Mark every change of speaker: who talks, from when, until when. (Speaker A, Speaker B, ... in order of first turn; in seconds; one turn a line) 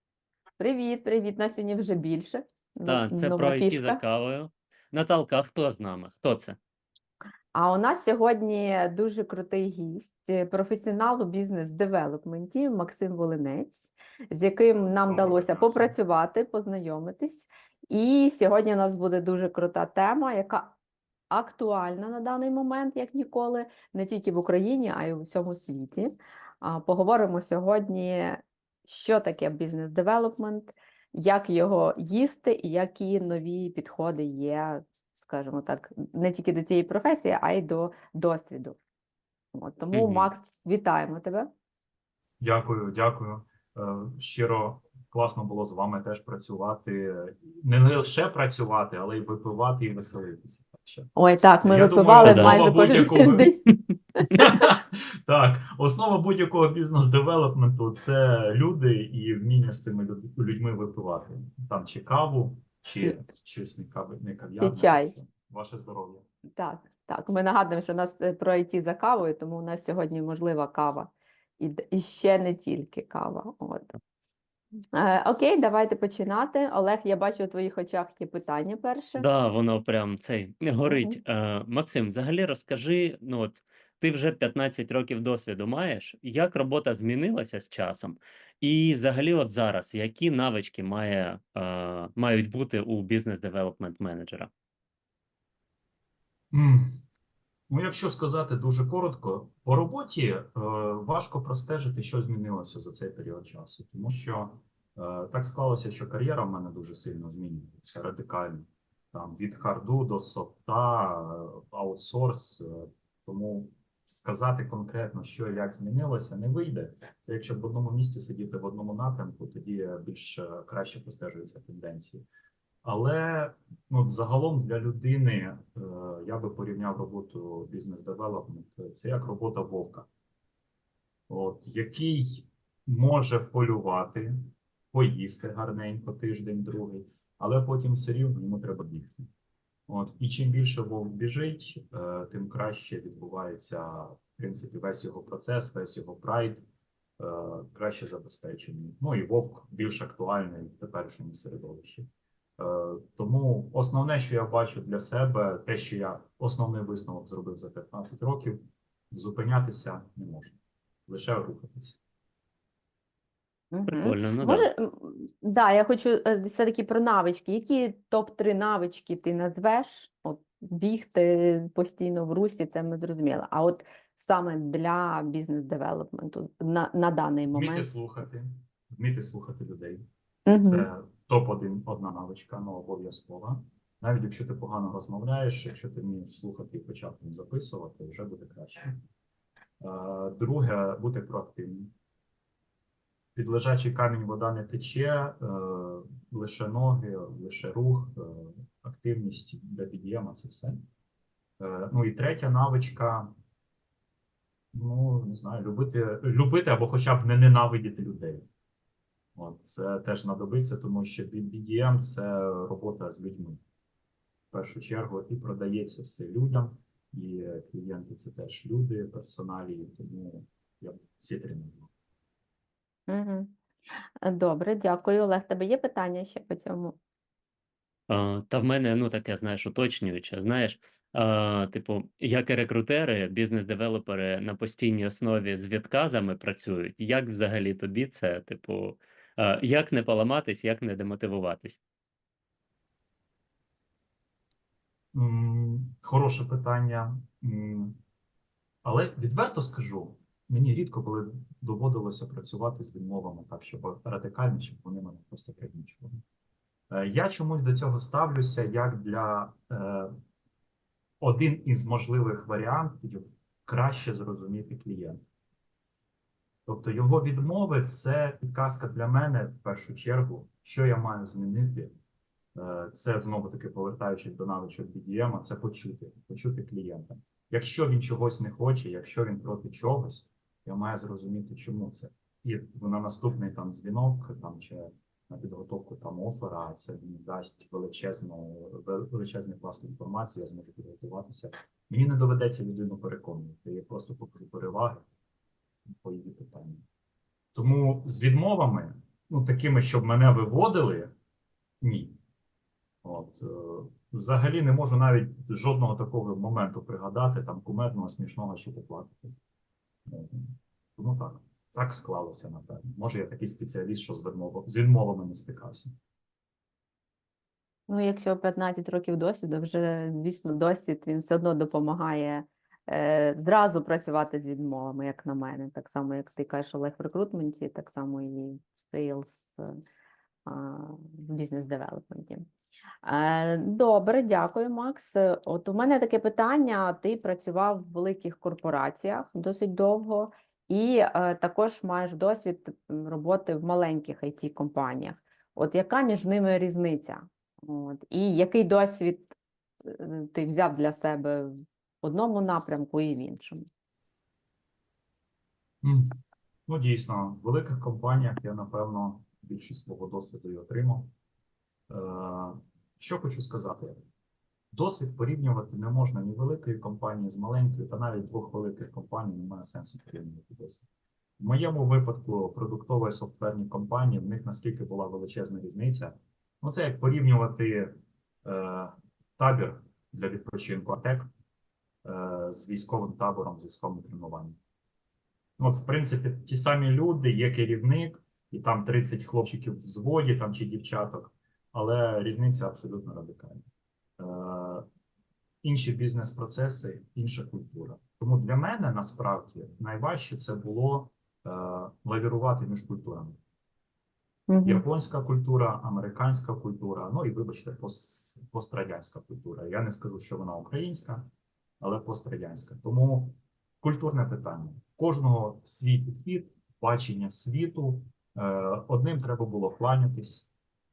Speaker A: 0.6-4.0
Speaker B: 2.9-6.6
Speaker A: 7.5-20.8
Speaker C: 15.1-15.9
Speaker A: 21.3-38.8
Speaker A: 39.5-41.5
Speaker B: 39.9-40.3
Speaker C: 42.4-51.1
Speaker A: 51.2-53.6
Speaker C: 51.6-53.5
Speaker B: 52.2-53.5
Speaker C: 54.4-66.2
Speaker A: 64.6-65.1
Speaker A: 66.6-73.9
Speaker A: 74.9-79.3
Speaker B: 79.2-94.5
Speaker A: 80.9-81.2
Speaker C: 96.5-97.0
Speaker C: 97.7-122.2
Speaker C: 122.8-130.1
Speaker C: 131.3-139.3
Speaker C: 139.9-146.6
Speaker C: 147.2-158.6
Speaker C: 159.1-162.0
Speaker A: 163.7-177.9
Speaker B: 163.9-164.7
Speaker C: 177.5-180.1
Speaker A: 180.5-180.9
Speaker C: 180.6-189.0
Speaker C: 189.8-191.9
Speaker C: 193.4-200.8
Speaker C: 201.6-203.3
Speaker C: 204.7-208.5
Speaker C: 209.4-213.6
Speaker C: 214.5-221.9
Speaker A: 223.1-223.6
Speaker A: 224.2-227.0
Speaker B: 228.1-241.8
Speaker C: 245.1-248.0
Speaker C: 248.8-256.2
Speaker C: 256.9-260.1
Speaker C: 261.2-265.2
Speaker C: 266.7-271.9
Speaker C: 272.6-295.0
Speaker C: 295.9-296.8
Speaker C: 297.5-301.1
Speaker C: 301.8-302.2
Speaker C: 303.0-309.4
Speaker C: 310.1-315.9
Speaker A: 317.9-329.8
Speaker A: 330.5-332.5
Speaker A: 333.0-353.7
Speaker C: 355.8-361.1
Speaker C: 361.9-364.0
Speaker C: 364.7-370.9
Speaker C: 371.4-381.3
Speaker C: 382.0-384.6
Speaker C: 385.6-393.6
Speaker C: 394.2-394.9
Speaker C: 395.6-403.4
Speaker A: 404.5-404.9
Speaker C: 404.6-411.3
Speaker C: 411.8-420.5